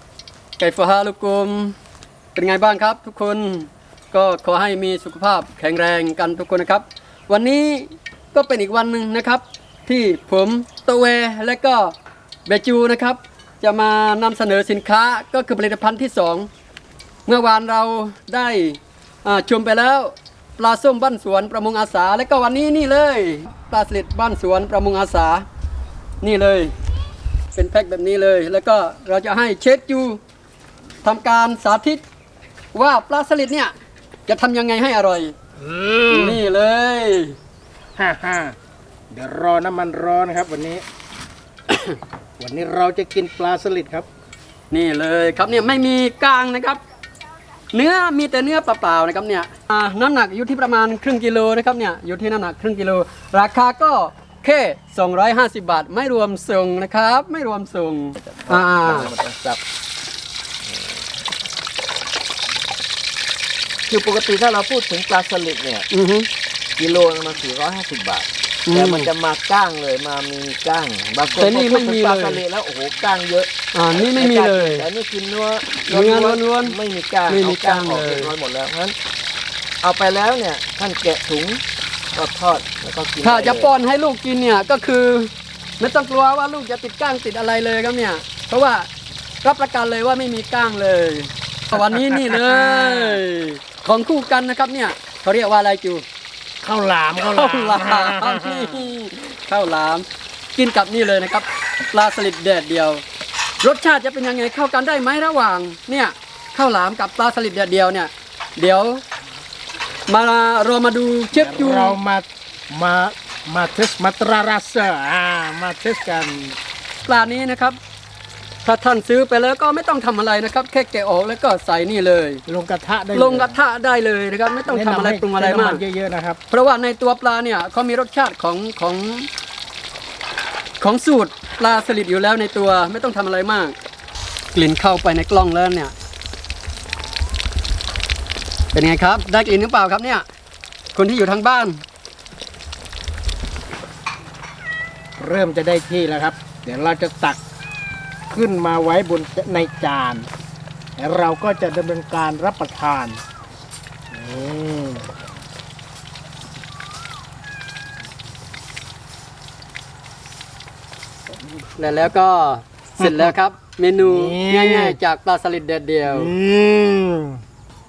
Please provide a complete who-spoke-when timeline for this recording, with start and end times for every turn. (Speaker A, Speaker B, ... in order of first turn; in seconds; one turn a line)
Speaker A: 0.6-1.7
Speaker A: 2.3-11.9
Speaker A: 12.5-16.5
Speaker A: 17.3-25.4
Speaker A: 26.2-26.7
Speaker A: 27.5-30.2
Speaker A: 31.0-32.0
Speaker A: 32.7-33.7
Speaker A: 34.3-35.3
Speaker B: 35.6-36.4
Speaker A: 36.1-37.4
Speaker B: 38.0-38.5
Speaker B: 39.1-40.8
Speaker A: 41.7-41.9
Speaker B: 42.4-44.1
Speaker A: 44.7-46.8
Speaker A: 47.7-59.1
Speaker C: 58.2-59.6
Speaker C: 63.9-65.9
Speaker A: 65.9-66.3
Speaker C: 66.8-78.9
Speaker A: 68.7-69.1
Speaker A: 71.4-72.4
Speaker A: 73.7-74.8
Speaker A: 75.8-78.3
Speaker C: 79.8-81.6
Speaker C: 82.1-83.7
Speaker A: 83.2-88.9
Speaker A: 89.4-96.0
Speaker B: 91.7-93.2
Speaker B: 96.6-98.8
Speaker A: 97.3-103.0
Speaker A: 103.6-109.0
Speaker A: 110.1-112.0
Speaker B: 111.4-116.5
Speaker A: 117.0-117.8
Speaker A: 118.6-122.4
Speaker B: 122.5-123.6
Speaker A: 123.1-125.8
Speaker B: 124.7-126.4
Speaker A: 126.5-129.3
Speaker A: 130.8-133.7
Speaker A: 134.5-135.9
Speaker A: 138.7-140.2
Speaker A: 140.9-141.8
Speaker B: 145.2-147.4
Speaker B: 148.3-150.3
Speaker B: 151.0-153.2
Speaker B: 154.1-155.1
Speaker A: 161.8-166.3
Speaker B: 163.0-163.3
Speaker B: 164.0-165.0
Speaker B: 166.1-167.4